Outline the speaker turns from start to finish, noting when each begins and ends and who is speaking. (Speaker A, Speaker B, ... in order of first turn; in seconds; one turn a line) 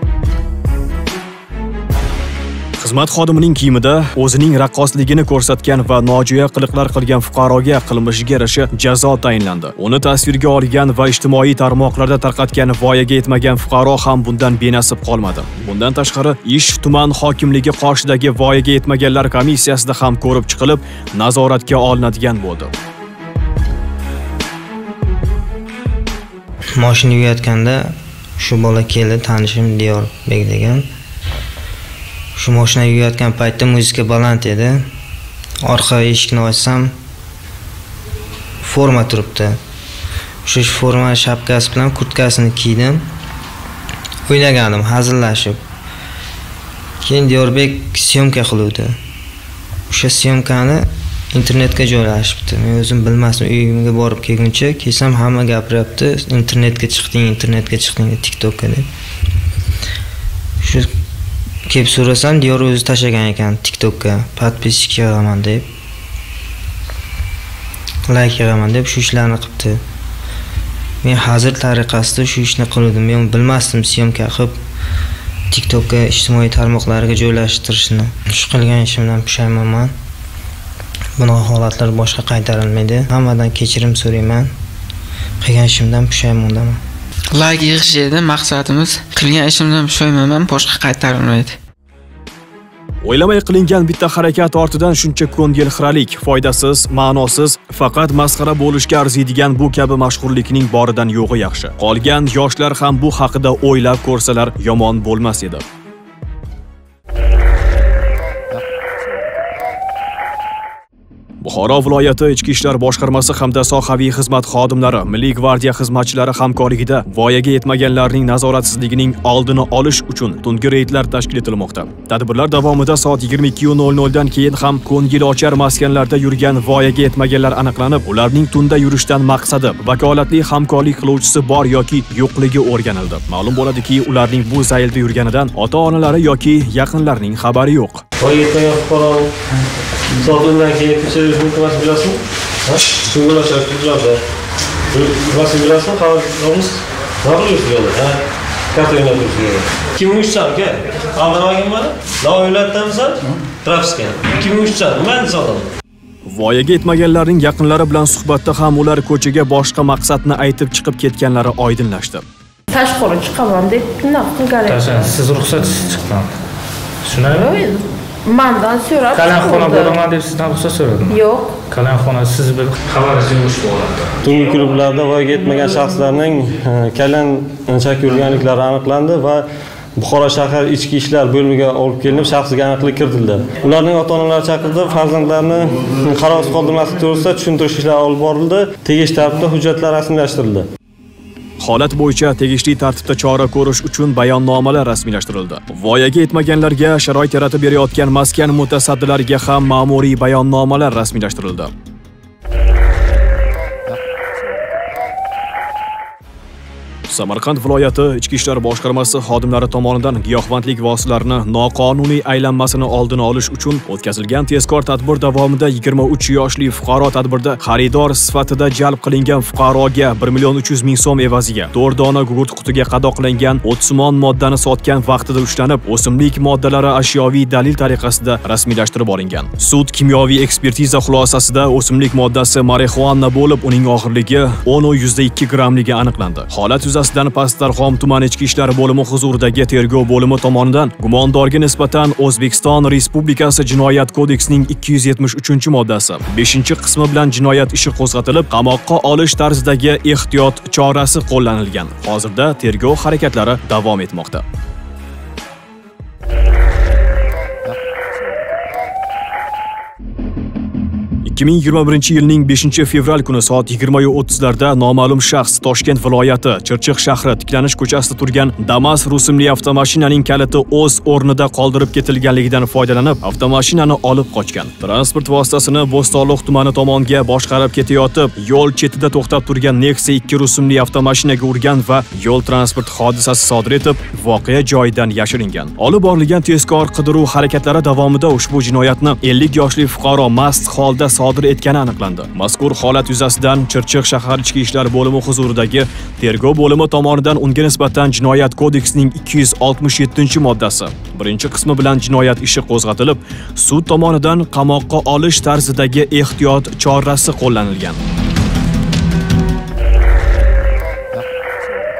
Speaker A: 2.8-22.7
Speaker B: 26.8-30.9
Speaker B: 32.4-34.8
Speaker B: 35.6-36.9
Speaker B: 38.6-39.6
Speaker B: 40.5-43.0
Speaker B: 44.3-45.6
Speaker B: 47.0-48.9
Speaker B: 49.9-58.9
Speaker B: 60.6-60.9
Speaker B: 61.7-65.7
Speaker B: 68.1-69.8
Speaker B: 71.0-74.6
Speaker B: 75.5-79.9
Speaker B: 81.2-84.5
Speaker B: 85.4-86.8
Speaker C: 87.3-91.5
Speaker A: 93.0-105.6
Speaker A: 111.4-138.0
Speaker D: 138.2-139.3
Speaker D: 140.2-144.2
Speaker D: 144.9-148.2
Speaker D: 148.7-155.7
Speaker A: 156.2-162.2
Speaker E: 162.7-165.2
Speaker F: 164.7-166.3
Speaker F: 167.0-167.7
Speaker E: 167.4-170.0
Speaker F: 169.1-174.1
Speaker E: 171.1-171.6
Speaker D: 174.2-179.4
Speaker D: 180.0-190.7
Speaker A: 191.6-201.7
Speaker A: 207.1-254.4
Speaker A: 261.2-308.0